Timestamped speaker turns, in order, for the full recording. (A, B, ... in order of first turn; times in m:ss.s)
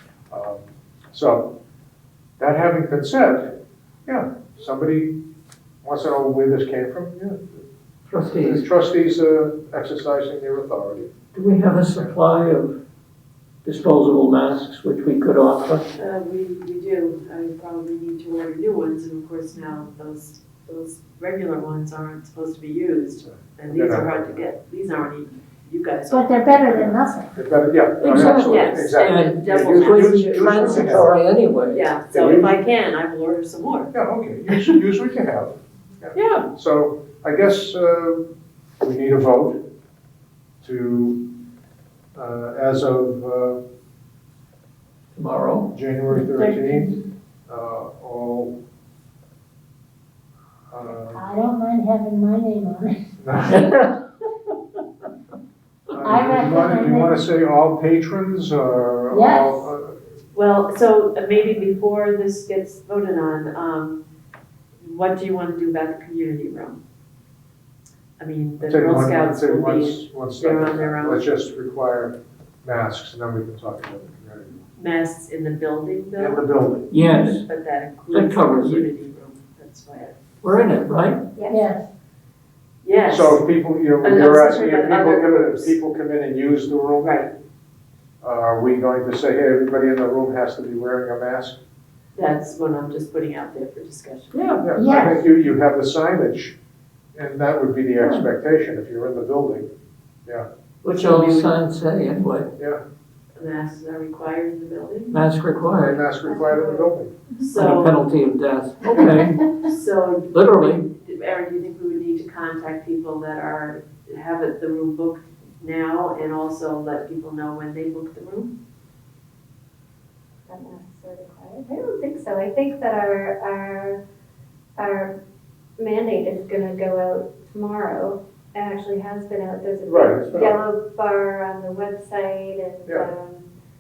0:00.3-0:01.5 A
0:02.4-0:05.2 A
0:05.8-0:07.6 A
0:08.1-0:08.6 B
0:08.4-0:11.1 A
0:11.3-0:12.8 B
0:13.6-0:15.9 B
0:16.0-0:26.9 C
0:23.7-0:24.4 A
0:26.1-0:27.4 D
0:26.8-0:31.1 A
0:28.0-0:31.9 B
0:28.4-0:31.1 C
0:31.7-0:33.9 C
0:32.1-0:32.6 A
0:33.9-0:38.3 A
0:36.2-0:36.5 B
0:38.8-0:39.6 A
0:40.6-0:41.3 A
0:42.2-0:43.6 A
0:45.2-0:45.7 B
0:45.7-0:47.0 A
0:46.1-0:47.0 D
0:47.5-0:48.5 A
0:50.7-0:51.2 A
0:51.1-0:53.0 D
0:53.2-0:53.7 A
0:53.5-0:54.0 B
0:55.9-1:00.0 A
0:56.0-0:57.1 D
0:59.1-0:59.7 D
1:00.3-1:04.0 C
1:04.8-1:06.8 C
1:08.2-1:11.3 C
1:08.6-1:14.6 A
1:14.8-1:16.5 C
1:16.2-1:16.9 A
1:16.9-1:17.4 B
1:17.2-1:20.7 C
1:18.1-1:18.8 B
1:20.4-1:21.2 B
1:21.4-1:21.6 E
1:21.5-1:21.9 D
1:22.8-1:23.4 C
1:23.1-1:27.2 A
1:24.0-1:25.8 C
1:27.0-1:27.3 C
1:28.2-1:31.6 A
1:32.2-1:34.6 C
1:34.3-1:35.1 B
1:34.6-1:36.6 A
1:34.8-1:35.2 D
1:37.2-1:39.7 A
1:38.0-1:38.3 B
1:40.8-1:42.5 B
1:40.9-1:41.6 C
1:43.4-1:45.1 C
1:45.1-1:46.1 B
1:45.8-1:47.2 A
1:46.2-1:46.9 E
1:47.4-1:48.0 C
1:47.6-1:49.5 B
1:49.6-1:58.5 C
1:50.3-1:50.8 B
2:00.5-2:04.0 E
2:04.8-2:05.2 E
2:05.8-2:13.5 E
2:09.8-2:10.6 A